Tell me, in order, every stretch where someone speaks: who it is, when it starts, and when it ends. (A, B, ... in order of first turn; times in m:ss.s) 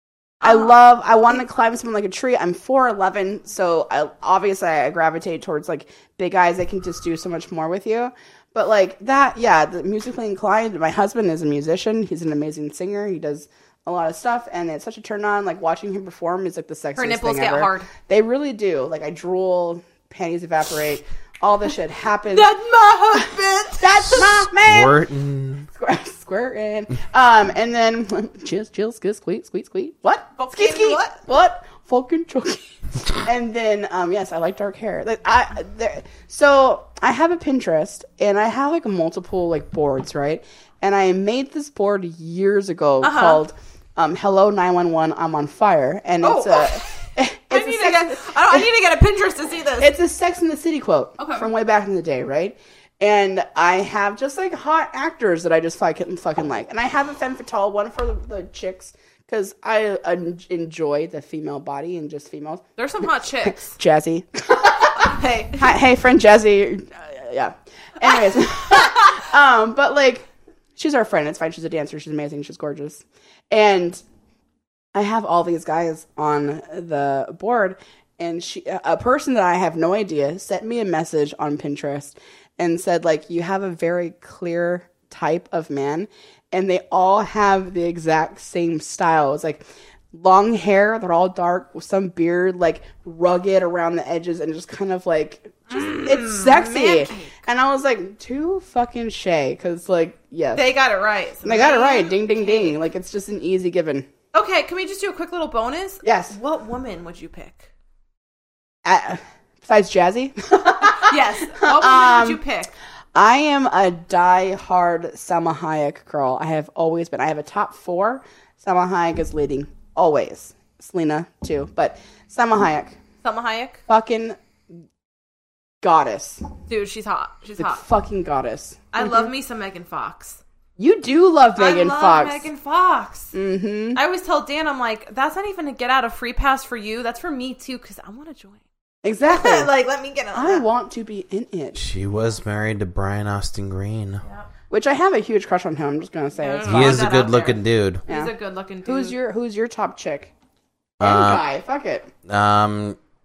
0:00.4-0:00.7 A
0:00.4-0:22.5 B
0:17.0-0:17.9 A
0:22.3-0:24.3 A
0:23.7-0:25.0 B
0:24.6-0:25.7 C
0:25.7-0:32.6 B
0:30.4-0:31.2 A
0:33.2-0:48.7 B
0:43.0-0:43.4 A
0:46.2-0:47.0 A
0:47.5-0:49.9 A
0:49.8-1:02.6 B
0:51.2-0:51.5 A
1:02.8-1:03.7 A
1:03.4-1:14.0 B
1:04.9-1:05.7 A
1:08.8-1:09.0 A
1:14.9-1:40.8 B
1:35.7-1:37.3 A
1:40.5-1:42.8 A
1:41.4-1:44.1 B
1:44.3-1:47.7 A
1:46.0-1:46.3 B
1:48.8-1:52.4 B
1:50.8-1:52.7 A
1:53.1-2:02.9 B
2:03.2-2:03.8 A
2:03.9-2:04.4 B
2:05.8-2:06.4 B
2:06.7-2:07.8 A
2:07.6-2:09.3 B
2:08.9-2:10.4 A
2:10.8-2:12.4 B
2:11.6-2:13.3 A
2:13.3-2:14.0 B
2:13.9-2:18.6 A
2:19.0-2:19.7 B
2:19.3-2:20.6 A
2:20.3-2:21.8 B
2:21.8-2:24.2 C
2:24.7-2:27.1 B
2:26.4-2:29.2 A
2:26.7-2:28.0 C
2:28.8-2:30.3 B
2:31.0-2:31.4 C
2:31.0-2:32.1 B
2:32.3-2:33.0 C